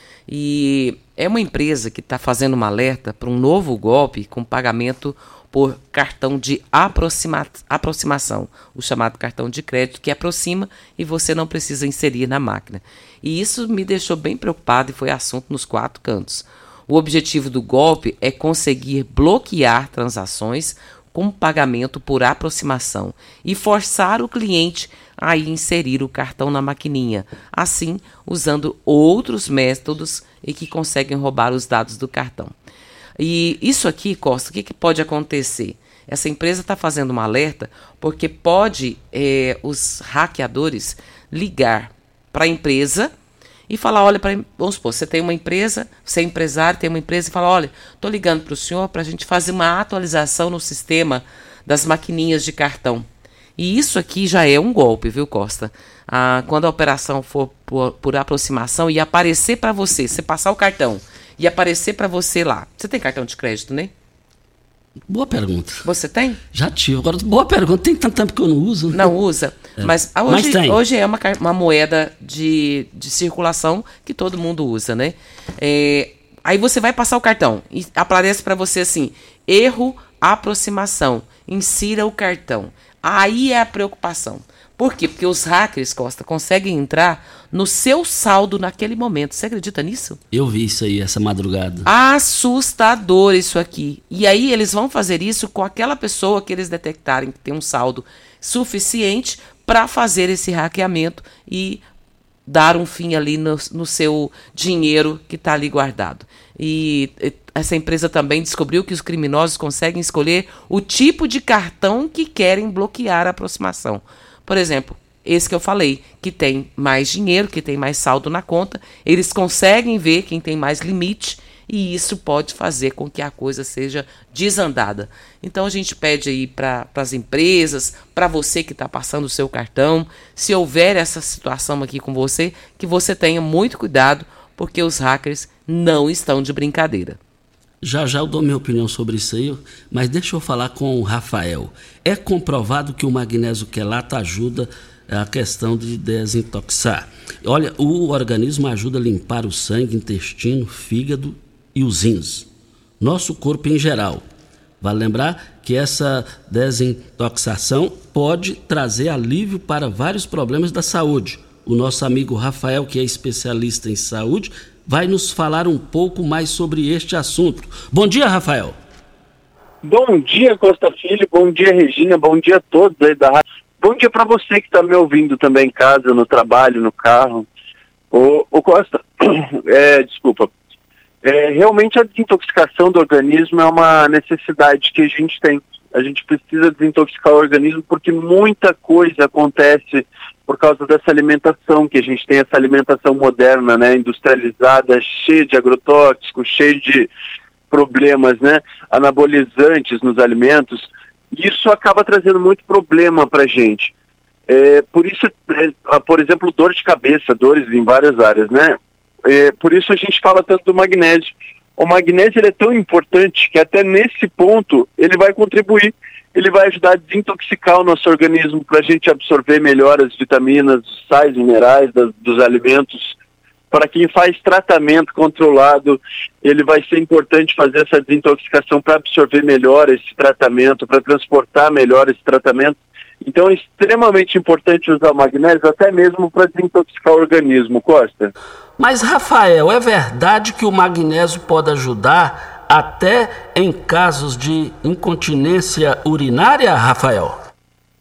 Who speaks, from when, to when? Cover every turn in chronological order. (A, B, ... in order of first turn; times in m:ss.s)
0:00.3-0:32.5 A
0:33.2-0:43.1 A
0:43.7-0:53.1 A
0:53.6-1:03.9 A
1:05.1-1:05.8 B
1:05.8-1:06.4 A
1:06.5-1:09.1 B
1:08.9-1:30.2 A
1:09.8-1:10.8 B
1:30.3-1:31.9 B
1:31.8-1:41.8 A
1:42.5-2:17.2 A
2:17.8-2:32.5 B
2:33.0-2:34.2 B
2:34.8-2:48.8 B
2:49.8-2:57.5 C
2:58.1-3:00.5 C
3:01.2-3:17.1 C
3:17.7-3:23.9 C
3:24.5-3:43.1 C
3:43.7-3:58.3 C
3:58.8-4:07.4 B